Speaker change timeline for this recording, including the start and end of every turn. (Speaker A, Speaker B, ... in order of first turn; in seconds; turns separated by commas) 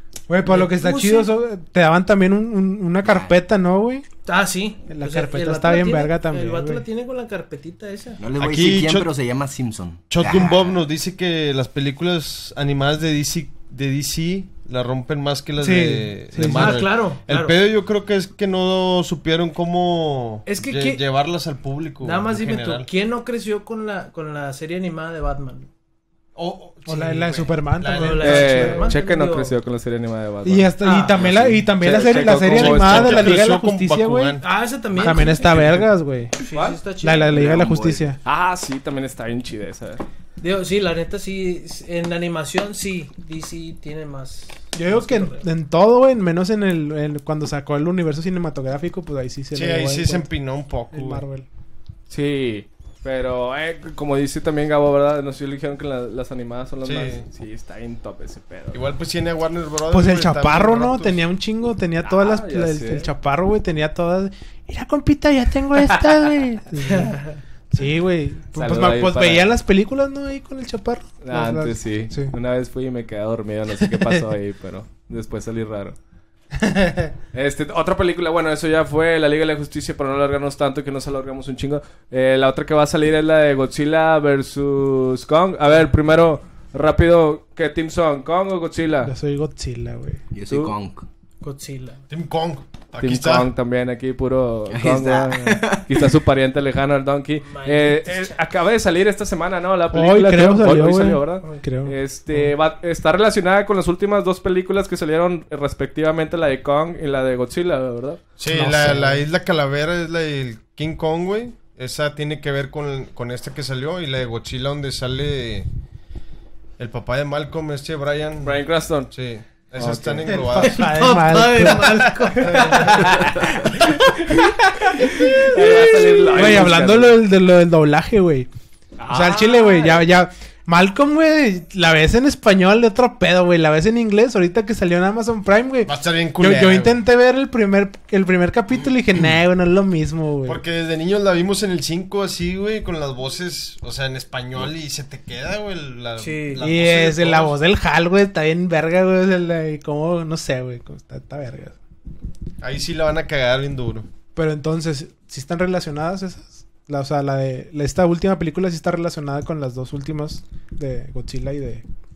Speaker A: 0.3-4.1, Speaker B: 0.4-1.3, Speaker C: 3.0-3.3, Speaker B: 4.2-8.2, Speaker A: 4.9-6.8, Speaker C: 8.2-10.8, Speaker D: 8.4-9.1, Speaker D: 10.1-22.9, Speaker A: 15.6-16.8, Speaker B: 16.4-17.6, Speaker B: 20.4-21.0, Speaker B: 22.0-25.7, Speaker D: 26.4-28.4, Speaker A: 26.9-29.0, Speaker B: 27.9-29.6, Speaker E: 28.2-30.7, Speaker A: 30.4-34.4, Speaker B: 30.8-31.2, Speaker D: 31.2-31.6, Speaker E: 31.7-33.4, Speaker D: 32.1-34.5, Speaker B: 34.4-35.6, Speaker A: 35.0-36.4, Speaker E: 35.3-35.9, Speaker B: 36.4-37.5, Speaker E: 36.5-36.8, Speaker A: 37.0-38.2, Speaker C: 37.3-38.0, Speaker E: 38.2-40.0, Speaker B: 40.4-45.5, Speaker A: 44.7-50.2, Speaker D: 49.5-51.2, Speaker A: 50.9-51.5, Speaker E: 52.1-58.8, Speaker D: 56.8-57.2, Speaker D: 58.7-61.2, Speaker A: 59.9-67.2, Speaker E: 62.0-63.1, Speaker B: 66.8-67.4, Speaker A: 67.7-72.3, Speaker E: 68.5-69.5, Speaker E: 71.2-76.0, Speaker A: 76.6-77.1, Speaker E: 77.3-89.1, Speaker A: 89.0-90.2, Speaker C: 90.3-91.1, Speaker E: 90.5-90.7, Speaker B: 91.4-92.0, Speaker D: 92.1-93.5, Speaker E: 93.0-108.2, Speaker C: 94.7-96.0, Speaker B: 97.5-98.4, Speaker A: 99.9-102.5, Speaker D: 108.4-115.7, Speaker A: 108.5-109.2, Speaker D: 116.8-120.9, Speaker E: 118.4-119.1, Speaker E: 119.8-120.2, Speaker A: 119.8-122.3, Speaker B: 120.5-123.3, Speaker D: 122.5-123.0, Speaker E: 122.5-127.2, Speaker A: 125.3-128.5, Speaker E: 129.0-130.0, Speaker A: 129.1-140.6, Speaker D: 135.9-137.0, Speaker D: 140.4-147.6, Speaker B: 146.2-146.7, Speaker A: 146.6-151.8, Speaker D: 152.6-154.1, Speaker A: 154.3-161.8